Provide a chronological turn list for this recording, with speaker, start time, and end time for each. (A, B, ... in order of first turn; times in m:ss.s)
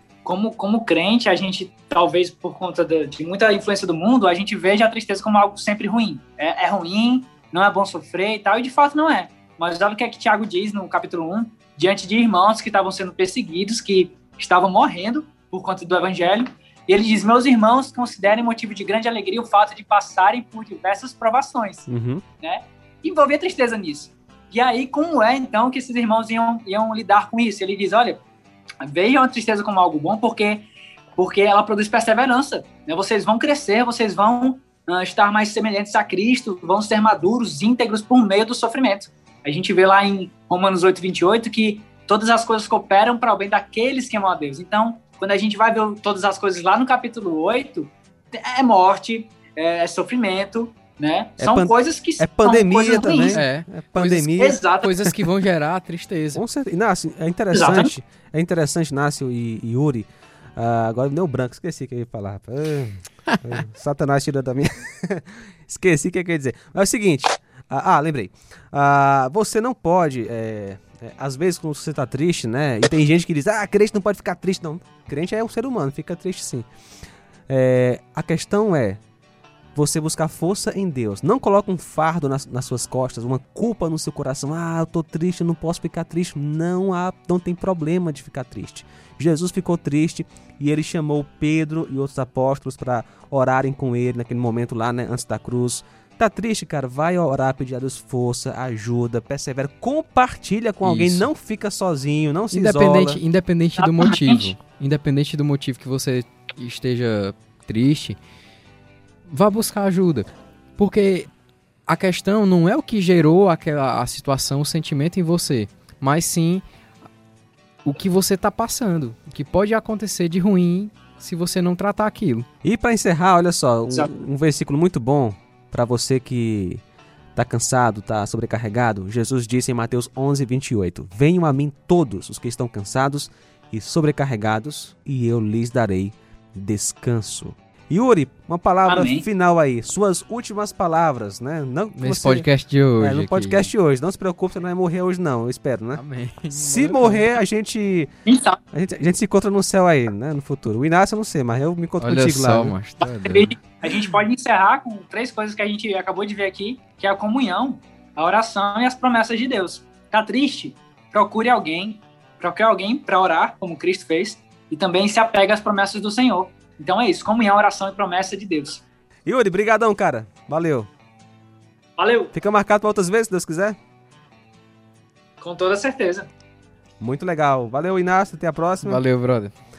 0:00.2-0:21.8 A
0:21.9-0:22.2 B
0:22.4-0:28.2 A
0:28.8-0:53.4 A
0:51.4-0:54.6 B
0:53.3-0:56.4 C
0:54.2-0:55.1 A
0:56.3-1:16.7 B
0:57.5-0:57.9 A
1:17.5-1:19.0 B
1:19.7-1:43.2 B
1:40.8-1:41.3 C
1:42.5-1:48.2 C
1:43.8-1:44.5 A
1:49.2-1:51.3 C
1:51.9-1:56.6 C
1:57.8-2:02.4 C
2:02.6-2:06.8 B
2:07.3-2:22.4 B
2:18.8-2:19.2 A
2:22.0-2:23.7 C
2:23.0-2:28.1 B
2:25.9-2:27.4 C
2:28.2-2:28.6 A
2:28.7-2:32.8 B
2:32.0-2:33.5 C
2:33.0-2:48.8 A
2:49.3-2:50.9 B
2:52.0-2:52.3 A
2:52.3-2:53.8 B
2:55.4-2:56.3 A
2:57.0-2:59.0 B
2:58.8-2:59.5 C